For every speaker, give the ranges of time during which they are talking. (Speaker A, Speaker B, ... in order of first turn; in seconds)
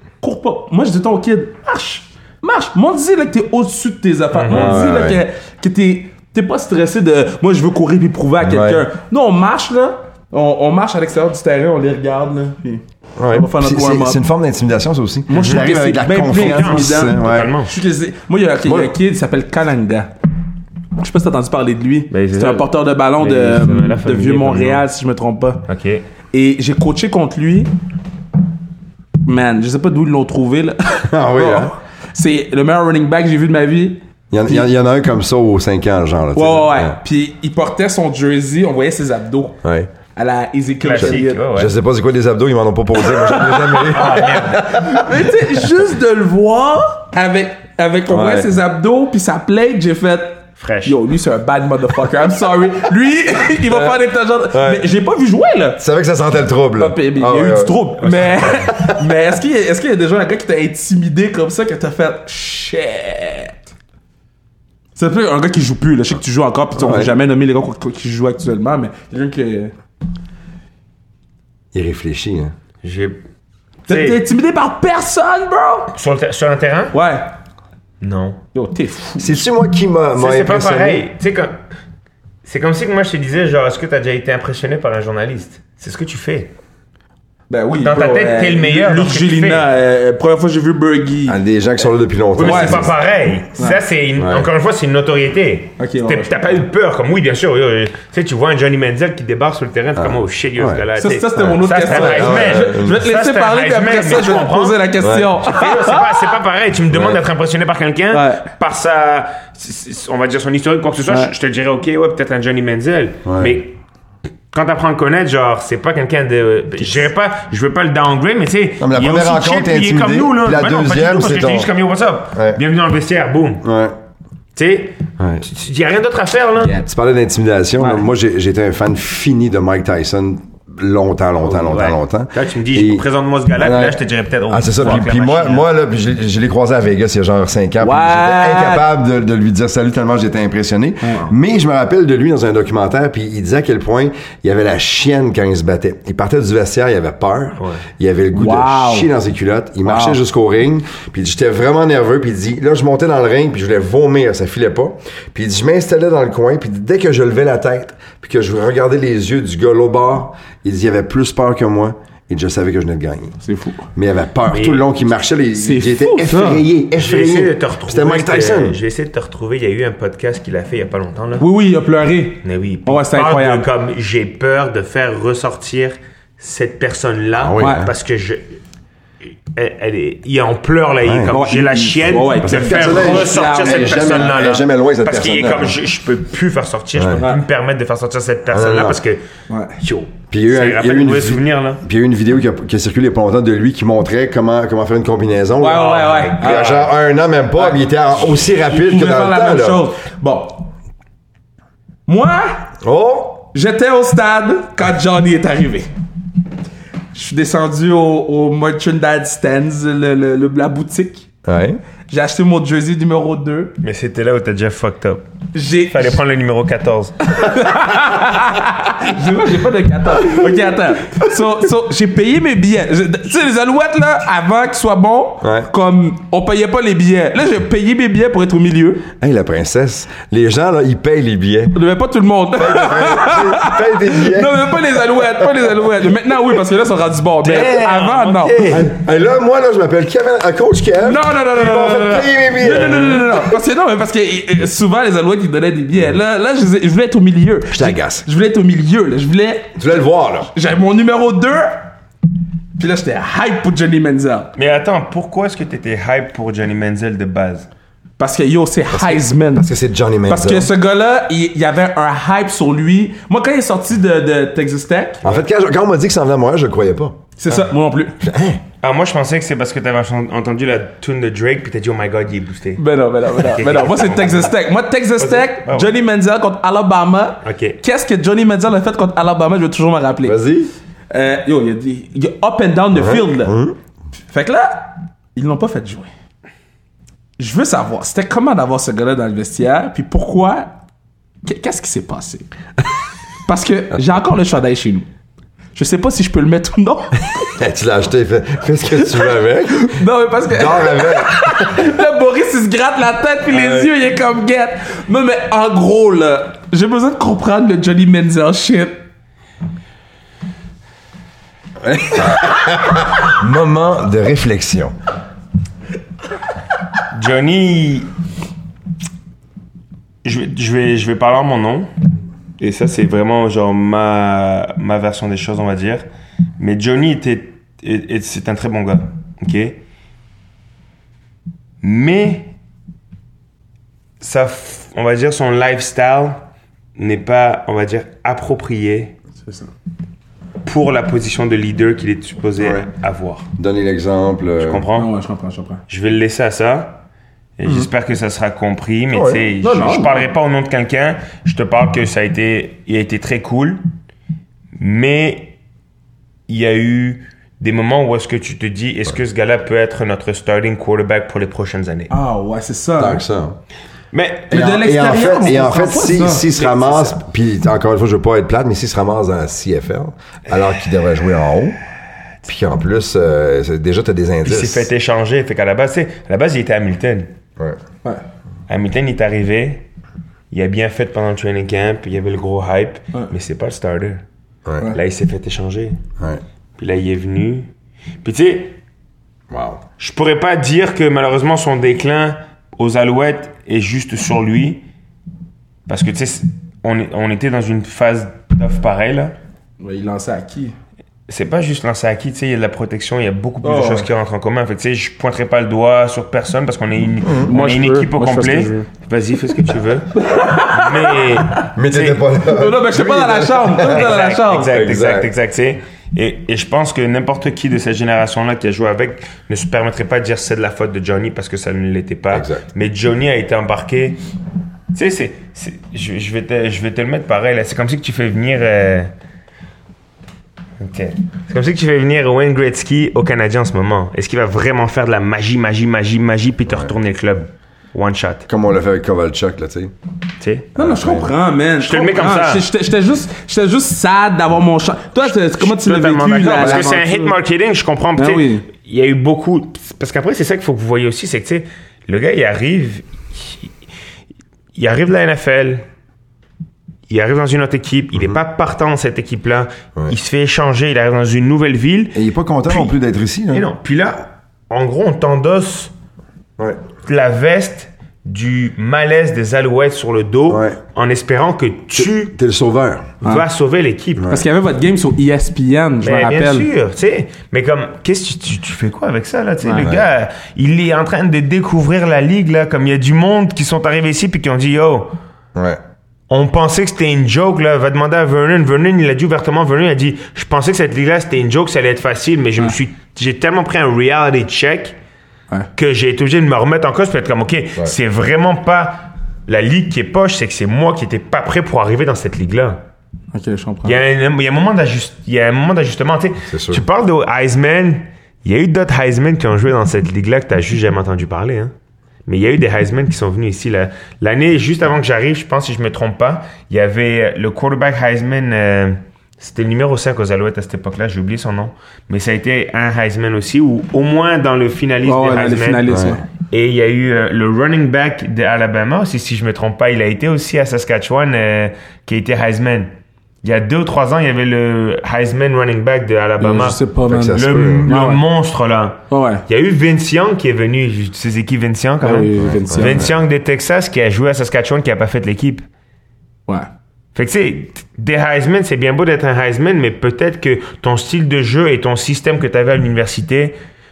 Speaker A: 0.2-14.2, 15.3-20.1, 21.0-25.7, 26.3-27.7, 29.2-34.7, 36.4-39.6, 40.1-41.4, 43.0-55.8, 56.8-63.6, 65.0-69.7, 73.9-75.9, 76.9-77.3, 78.5-79.4, 87.5-91.4, 92.4-92.9, 95.8-96.3, 101.0-106.3, 108.1-108.5, 111.1-111.3, 127.8-128.1, 137.8-138.9, 148.3-149.1, 149.8-150.2, 163.4-163.9, 165.6-166.7, 171.4-173.7, 177.6-177.9, 181.3-184.4, 189.5-189.8, 195.6-196.8, 197.6-200.7, 202.1-202.7, 203.5-205.9, 207.1-211.3, 212.1-213.7, 215.5-216.2, 217.3-229.1, 231.7-238.8, 241.1-249.8, 250.5-251.9, 252.8-254.5, 258.2-259.7, 260.3-265.2, 267.4-268.2, 272.8-280.4, 281.1-283.5, 284.3-286.1, 287.4-290.8, 291.4-292.5, 293.5-295.1, 295.8-297.5, 299.1-309.0, 339.4-339.7, 344.9-345.8, 349.6-350.3, 362.1-363.2, 364.5-366.6, 399.8-400.8, 403.6-404.1, 407.5-408.9, 410.1-411.7, 412.4-414.7, 440.8-447.4, 448.2-448.6, 474.3-476.7, 479.6-479.9, 503.3-504.0, 525.0-526.2, 536.4-538.2, 539.1-539.4, 542.0-543.1
Speaker B: 4.3-4.8, 15.3-15.7, 16.2-17.7, 22.1-24.9, 25.7-26.0, 40.8-41.7, 43.8-44.9, 50.6-51.0, 58.1-58.5, 72.8-73.2, 73.9-74.2, 75.9-77.0, 78.0-78.4, 80.2-81.6, 82.5-86.5, 87.8-89.7, 92.4-104.9, 105.4-113.8, 114.5-123.7, 124.6-126.8, 131.5-135.7, 164.5-164.9, 166.9-171.5, 172.4-178.6, 179.6-189.2, 189.8-191.8, 195.7-196.9, 213.8-215.2, 215.8-218.3, 237.4-238.9, 254.6-257.7, 268.8-274.6, 275.2-275.9, 277.4-277.8, 317.1-318.1, 320.2-321.9, 322.6-326.0, 326.6-329.8, 331.8-332.5, 334.2-336.4, 337.0-339.1, 340.6-343.5, 344.6-345.1, 345.9-347.0, 347.6-353.8, 354.8-355.6, 356.5-362.1, 364.1-364.5, 366.6-367.2, 374.4-377.3, 378.7-379.9, 380.5-384.2, 384.9-386.0, 386.8-387.7, 388.2-388.8, 390.0-394.8, 395.9-399.3, 401.3-412.2, 413.9-424.2, 424.9-429.1, 430.8-438.4, 440.4-440.7, 441.8-442.7, 445.2-453.7, 454.8-455.8, 457.1-462.9, 463.5-465.9, 467.0-472.3, 473.2-474.3, 476.0-485.1, 486.3-494.9, 495.8-502.8, 503.8-511.7, 512.3-525.9, 526.4-532.9, 533.4-545.6, 547.1-553.6
Speaker C: 4.5-5.2, 8.4-8.8, 13.2-17.6, 18.6-18.9, 31.1-31.8, 34.3-37.0, 39.6-39.9, 41.0-45.2, 48.1-48.5, 53.7-54.9, 55.8-59.0, 66.8-67.1, 71.7-72.5, 79.2-81.0, 91.3-93.0, 94.2-94.5, 100.0-100.8, 101.4-103.0, 105.0-105.3, 106.9-107.2, 113.2-113.6, 118.8-121.7, 122.3-122.6, 123.6-124.0, 125.2-125.4, 126.6-133.1, 133.6-163.3, 163.9-168.8, 177.4-177.9, 181.0-181.4, 182.3-185.8, 186.9-187.3, 188.5-189.0, 190.3-199.8, 202.8-203.5, 211.4-211.8, 225.4-225.7, 229.2-231.8, 232.6-234.8, 238.7-243.5, 247.7-248.3, 249.8-250.5, 258.9-260.7, 265.2-267.2, 268.2-268.6, 280.2-280.7, 282.9-283.8, 297.5-300.0, 300.5-301.8, 303.5-303.9, 311.9-314.9, 342.6-342.9, 343.6-344.9, 349.1-349.4, 363.0-363.6, 364.5-371.8, 372.4-374.9, 389.5-389.8, 407.2-407.5, 411.8-415.3, 422.3-422.6, 438.5-439.9, 440.8-441.3, 446.6-446.9, 462.1-463.7, 470.5-470.8, 471.9-473.1, 474.2-474.4, 479.8-480.1, 485.6-485.8, 506.5-506.8, 525.9-526.2, 537.1-537.9, 542.4-543.1